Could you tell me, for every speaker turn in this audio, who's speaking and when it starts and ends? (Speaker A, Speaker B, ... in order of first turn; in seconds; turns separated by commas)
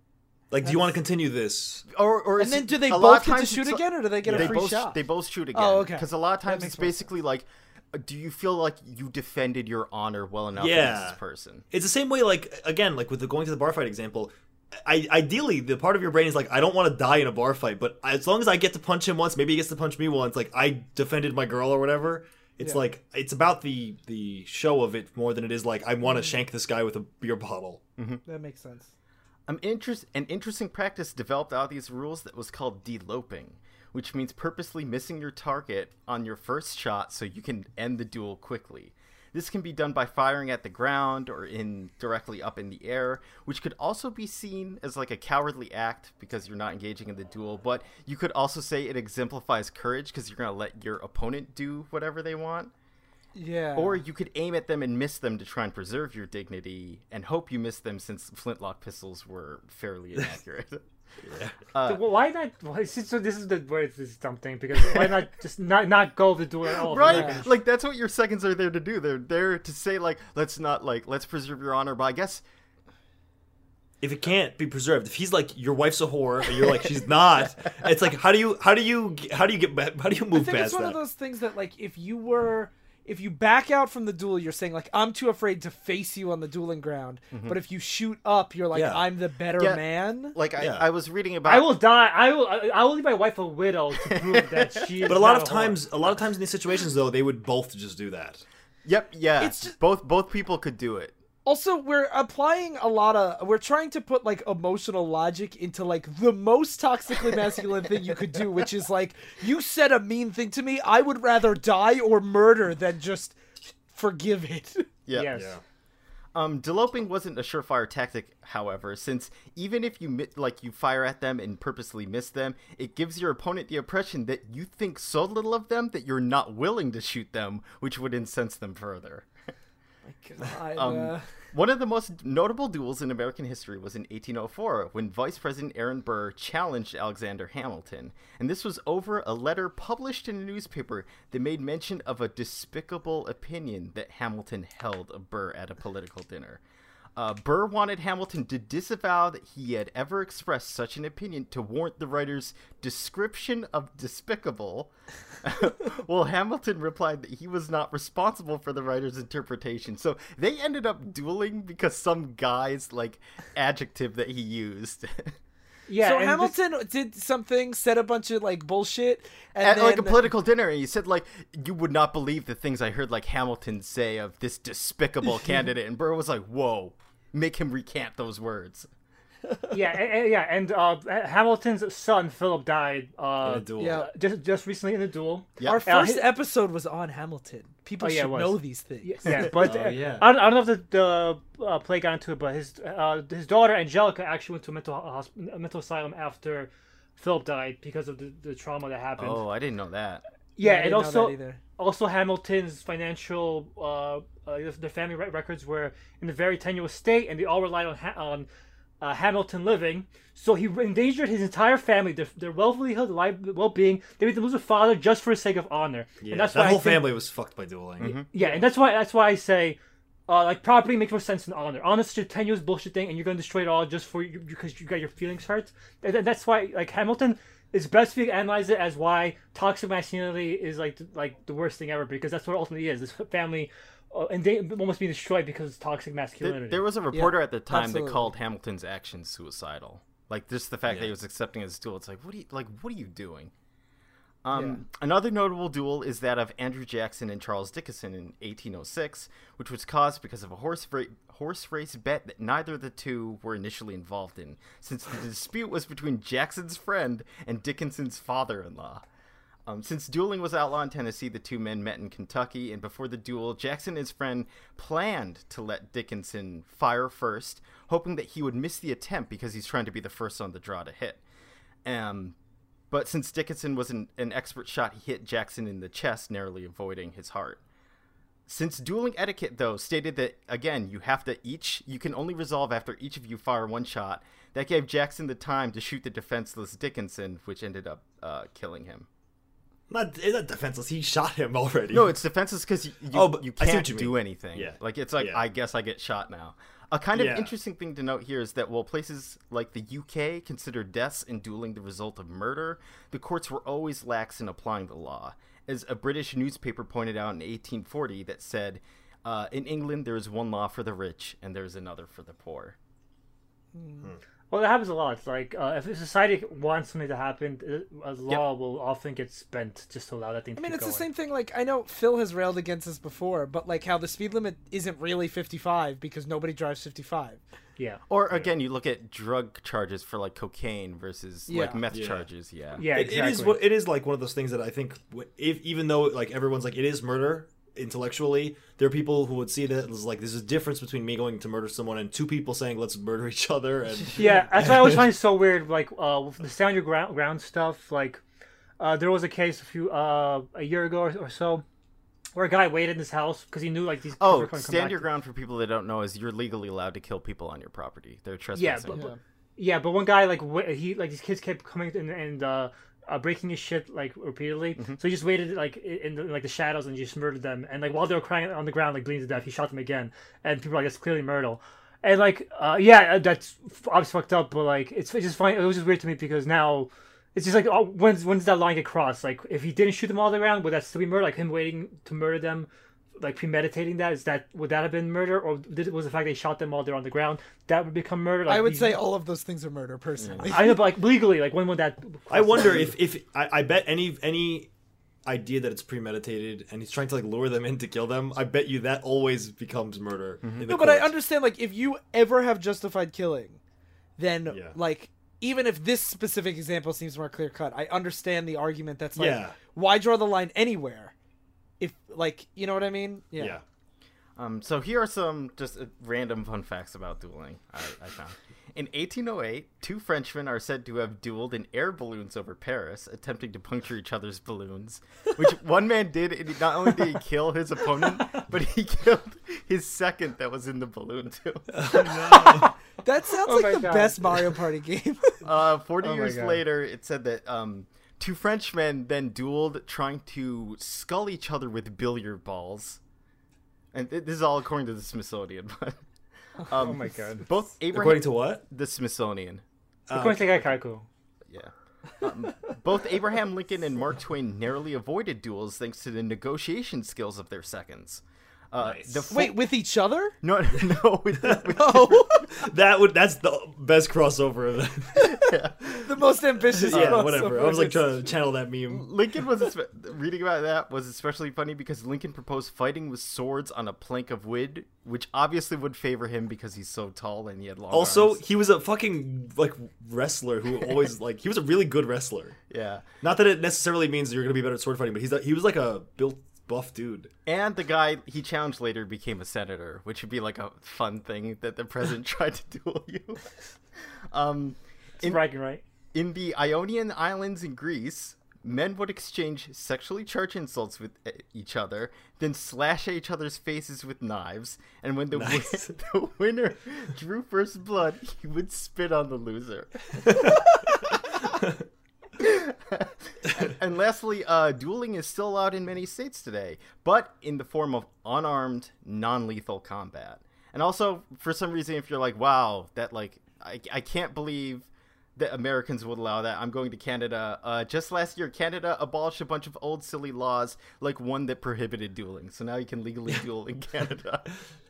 Speaker A: 0.5-1.9, Speaker B: 1.9-11.6, Speaker C: 2.4-5.0, Speaker A: 4.3-4.6, Speaker C: 5.5-6.9, Speaker A: 10.6-11.2, Speaker A: 11.7-14.3, Speaker A: 14.8-27.8, Speaker B: 28.0-28.2, Speaker C: 28.2-28.9, Speaker B: 29.5-52.7, Speaker C: 53.4-54.0, Speaker B: 53.7-60.8, Speaker A: 61.2-61.5, Speaker B: 61.7-62.0, Speaker D: 61.9-67.5, Speaker B: 66.8-72.4, Speaker C: 67.0-67.4, Speaker A: 74.0-81.0, Speaker C: 80.3-90.4, Speaker B: 87.3-87.6, Speaker A: 88.7-89.0, Speaker B: 89.6-91.7, Speaker A: 90.6-90.9, Speaker D: 91.5-95.8, Speaker B: 94.1-94.9, Speaker A: 95.0-98.4, Speaker B: 98.8-101.1, Speaker C: 99.4-99.8, Speaker C: 101.4-114.9, Speaker B: 115.0-115.5, Speaker D: 115.1-115.5, Speaker A: 115.3-115.6, Speaker B: 116.3-129.3, Speaker C: 130.1-131.2, Speaker B: 130.7-146.6, Speaker B: 147.2-165.3, Speaker D: 165.9-166.6, Speaker C: 166.0-170.2, Speaker B: 169.6-178.9, Speaker D: 179.7-186.2, Speaker A: 183.4-184.1, Speaker C: 183.8-184.1, Speaker B: 185.6-185.8, Speaker C: 185.6-189.7, Speaker D: 188.0-199.4, Speaker A: 189.6-190.2, Speaker B: 199.2-200.2, Speaker D: 200.6-208.5, Speaker C: 200.6-201.6, Speaker D: 209.0-217.1, Speaker A: 216.2-218.1, Speaker B: 218.0-218.3, Speaker D: 218.3-236.9, Speaker B: 236.4-243.5, Speaker C: 237.1-238.3, Speaker B: 244.4-259.0, Speaker C: 244.5-244.8, Speaker B: 259.7-271.2, Speaker B: 271.9-272.4, Speaker B: 272.9-277.6, Speaker B: 278.5-289.1, Speaker A: 289.9-292.2, Speaker B: 291.9-312.7, Speaker A: 293.1-295.4, Speaker A: 297.1-297.5, Speaker C: 313.7-314.1, Speaker D: 314.5-321.0, Speaker C: 320.6-327.4, Speaker B: 328.1-332.8, Speaker C: 331.5-331.8, Speaker A: 331.9-332.2, Speaker D: 332.8-333.6, Speaker A: 332.9-345.0, Speaker D: 344.1-348.2, Speaker C: 344.2-344.4, Speaker D: 348.8-351.6, Speaker D: 352.4-355.1, Speaker B: 354.2-359.1, Speaker D: 358.6-359.0, Speaker C: 358.9-359.2, Speaker D: 359.6-382.7, Speaker D: 383.2-389.0, Speaker C: 388.4-390.9, Speaker B: 390.2-390.5, Speaker D: 390.5-392.9, Speaker A: 392.3-394.7, Speaker A: 395.2-401.1, Speaker B: 400.4-400.7, Speaker C: 400.7-403.6, Speaker C: 404.2-411.1, Speaker A: 404.5-404.8, Speaker A: 409.1-409.6, Speaker C: 411.8-413.6, Speaker A: 413.4-413.6, Speaker B: 414.4-431.8, Speaker A: 431.7-432.7, Speaker C: 432.3-435.4, Speaker D: 433.4-434.2, Speaker B: 435.4-443.0, Speaker D: 436.0-436.6, Speaker B: 443.9-446.0, Speaker B: 446.7-449.6, Speaker D: 446.7-447.5, Speaker A: 447.9-448.6, Speaker A: 450.1-450.7, Speaker D: 450.1-451.1, Speaker B: 451.5-459.6, Speaker A: 458.8-459.3, Speaker C: 459.3-460.4, Speaker B: 460.4-462.5, Speaker C: 461.7-462.4, Speaker A: 462.5-466.0, Speaker B: 465.2-465.8, Speaker C: 466.0-468.1, Speaker A: 466.7-469.1, Speaker B: 466.9-467.4, Speaker B: 468.9-478.4, Speaker A: 477.9-482.6, Speaker B: 482.7-483.0, Speaker A: 483.2-487.3, Speaker B: 487.4-493.5, Speaker B: 494.3-495.4, Speaker D: 495.2-495.8, Speaker B: 496.1-510.4, Speaker A: 505.3-505.9, Speaker A: 510.2-510.6, Speaker B: 512.4-534.5